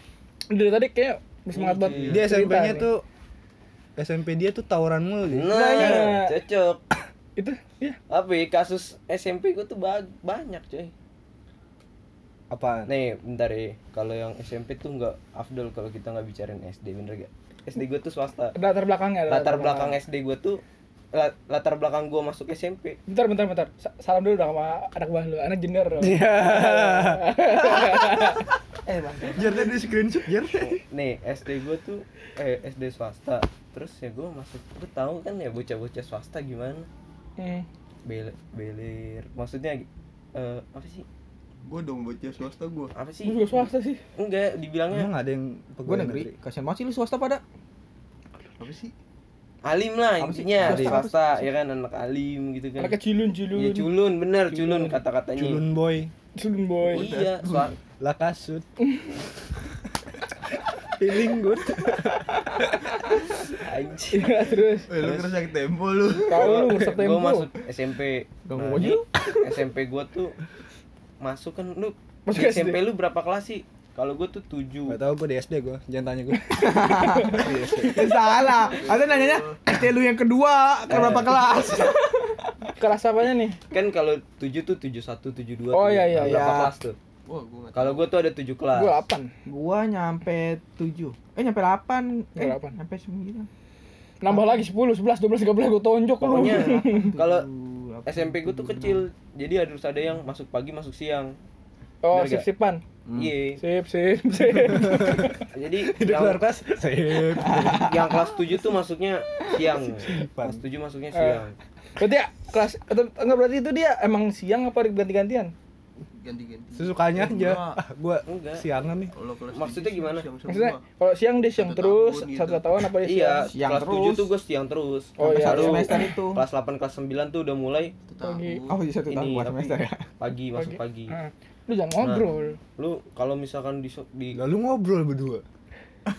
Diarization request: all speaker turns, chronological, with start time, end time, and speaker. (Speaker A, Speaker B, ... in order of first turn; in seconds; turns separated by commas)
Speaker A: 0.5-2.9, Speaker B: 1.5-2.2, Speaker C: 2.0-3.0, Speaker C: 4.0-6.0, Speaker B: 5.3-6.8, Speaker A: 5.7-6.3, Speaker A: 7.3-8.0, Speaker B: 8.1-10.9, Speaker C: 12.5-12.9, Speaker B: 12.8-18.6, Speaker A: 18.5-20.0, Speaker B: 19.3-20.6, Speaker B: 21.1-23.0, Speaker A: 23.1-28.4, Speaker C: 26.0-28.5, Speaker D: 28.8-29.7, Speaker C: 29.3-30.8, Speaker B: 30.5-36.9, Speaker A: 37.4-37.7, Speaker B: 38.0-41.0, Speaker E: 41.6-42.9, Speaker B: 42.9-45.1, Speaker A: 43.2-44.0, Speaker C: 44.9-46.3, Speaker D: 45.9-47.4, Speaker E: 48.6-48.9, Speaker B: 49.6-53.0, Speaker D: 50.2-51.5, Speaker C: 50.6-51.1, Speaker A: 52.8-53.9, Speaker B: 53.5-55.6, Speaker C: 54.5-56.1, Speaker A: 56.4-57.1, Speaker B: 56.9-57.7, Speaker E: 56.9-57.7, Speaker C: 58.0-58.7, Speaker A: 58.8-59.1, Speaker C: 60.9-62.2, Speaker B: 63.3-64.3, Speaker A: 64.1-64.9, Speaker E: 64.9-66.6, Speaker B: 64.9-65.3, Speaker A: 66.3-67.5, Speaker B: 66.3-70.3, Speaker D: 68.5-69.5, Speaker B: 71.2-75.0, Speaker A: 72.2-72.8, Speaker C: 74.9-78.0, Speaker D: 76.6-82.4, Speaker E: 78.6-79.6, Speaker B: 80.9-81.4, Speaker A: 82.7-83.6, Speaker B: 83.7-87.0, Speaker A: 85.7-86.5, Speaker D: 86.2-86.7, Speaker E: 87.2-88.1, Speaker B: 87.7-89.0, Speaker A: 88.7-89.3, Speaker D: 89.5-93.5, Speaker A: 92.3-92.8, Speaker A: 94.2-97.1, Speaker B: 96.2-97.5, Speaker D: 96.3-99.0, Speaker B: 98.0-101.3, Speaker A: 102.0-102.8, Speaker B: 102.1-102.5, Speaker C: 103.0-103.3, Speaker B: 103.1-103.6, Speaker A: 103.6-105.4, Speaker C: 104.6-108.1, Speaker B: 105.5-106.5, Speaker B: 107.7-111.5, Speaker C: 109.5-110.6, Speaker A: 111.1-111.4, Speaker A: 112.0-115.5, Speaker E: 116.2-117.8, Speaker C: 116.7-119.1, Speaker B: 118.3-118.7, Speaker E: 119.1-120.8, Speaker B: 119.5-120.3, Speaker A: 120.5-123.5, Speaker E: 121.5-122.6, Speaker B: 123.0-128.0, Speaker D: 123.5-124.3, Speaker A: 125.2-126.1, Speaker D: 125.2-126.4, Speaker E: 128.1-128.8, Speaker A: 128.2-128.7, Speaker D: 128.7-130.0, Speaker B: 129.1-131.2, Speaker A: 130.5-132.6, Speaker B: 132.0-134.4, Speaker C: 134.3-135.4